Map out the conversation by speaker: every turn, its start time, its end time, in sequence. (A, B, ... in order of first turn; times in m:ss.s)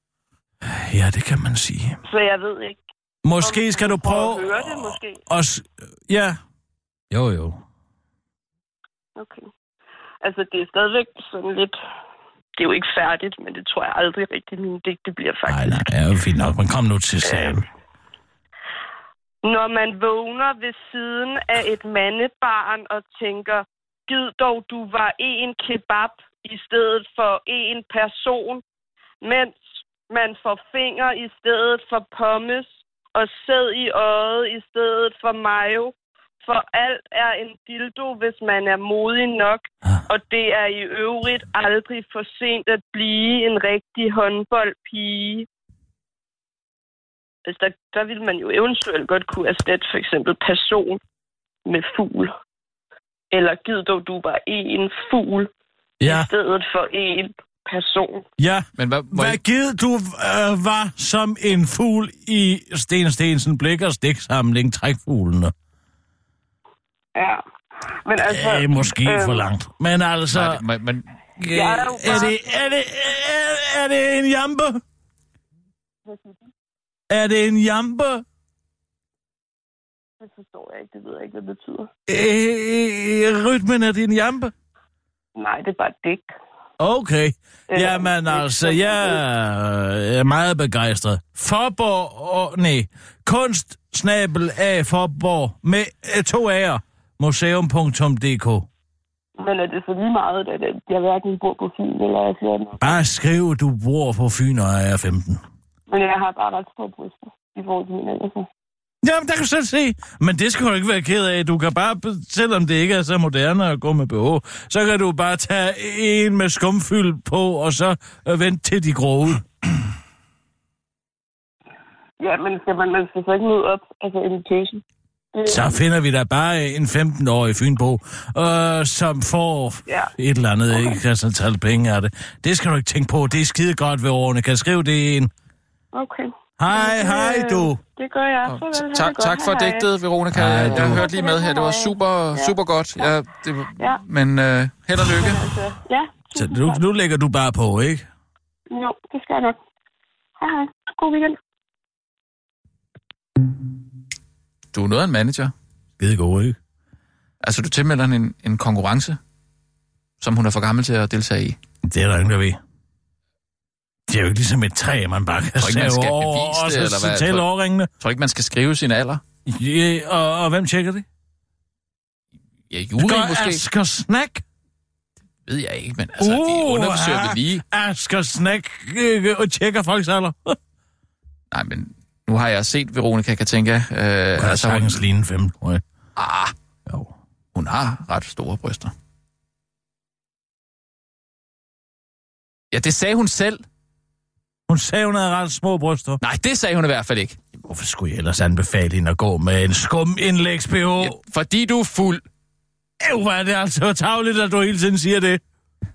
0:00.6-0:02.0 A
0:02.0-0:02.8 B
0:03.2-0:06.4 A
0:03.4-0:05.2 B
0:07.1-0:07.6 A
0:09.2-0:09.5 B
0:10.2-0:11.8 B
0:12.6-0:15.8 B
0:15.5-0:17.7 A
0:17.2-0:17.6 B
0:19.4-0:28.6 B
0:29.2-0:45.5 B
0:47.5-0:51.0 B
0:51.6-0:52.3 B
0:53.3-0:55.5 B
0:56.0-0:56.3 A
0:56.0-0:58.2 B
0:58.4-1:05.5 A
0:58.8-0:59.4 C
1:07.2-1:07.4 B
1:08.0-1:09.5 B
1:08.2-1:10.6 A
1:10.3-1:11.1 C
1:11.4-1:14.8 A
1:11.5-1:12.5 B
1:16.0-1:16.4 B
1:17.1-1:18.2 A
1:20.2-1:21.9 B
1:22.1-1:24.5 A
1:25.4-1:26.3 B
1:26.8-1:38.7 A
1:27.7-1:29.2 B
1:39.4-1:43.0 B
1:42.8-1:45.4 A
1:45.9-1:48.5 B
1:49.0-1:59.5 A
2:02.2-2:04.8 B
2:05.3-2:05.8 B
2:05.5-2:15.3 A
2:09.9-2:10.1 B
2:10.7-2:11.0 B
2:15.9-2:19.9 B
2:16.6-2:17.8 A
2:18.4-2:25.4 C
2:20.3-2:21.1 A
2:20.6-2:23.1 B
2:23.8-2:24.0 B
2:25.1-2:26.8 B
2:26.3-2:28.1 A
2:28.7-2:29.6 B
2:30.4-2:31.4 B
2:34.7-2:35.5 C
2:36.0-2:36.6 A
2:37.4-2:39.2 C
2:40.2-2:41.6 C
2:41.8-2:42.6 A
2:44.1-2:47.9 A
2:45.6-2:47.5 C
2:48.0-2:49.2 C
2:49.4-2:51.0 A
2:52.7-2:53.6 C
2:53.0-2:54.4 A
2:55.5-2:57.6 C
2:56.2-3:00.6 A
3:01.5-3:05.0 C
3:04.4-3:05.8 A
3:06.2-3:06.5 C
3:06.9-3:07.1 A
3:07.6-3:08.9 C
3:12.7-3:13.6 C
3:14.7-3:16.2 A
3:16.2-3:17.4 C
3:17.6-3:21.2 A
3:21.0-3:22.2 C
3:23.0-3:25.4 A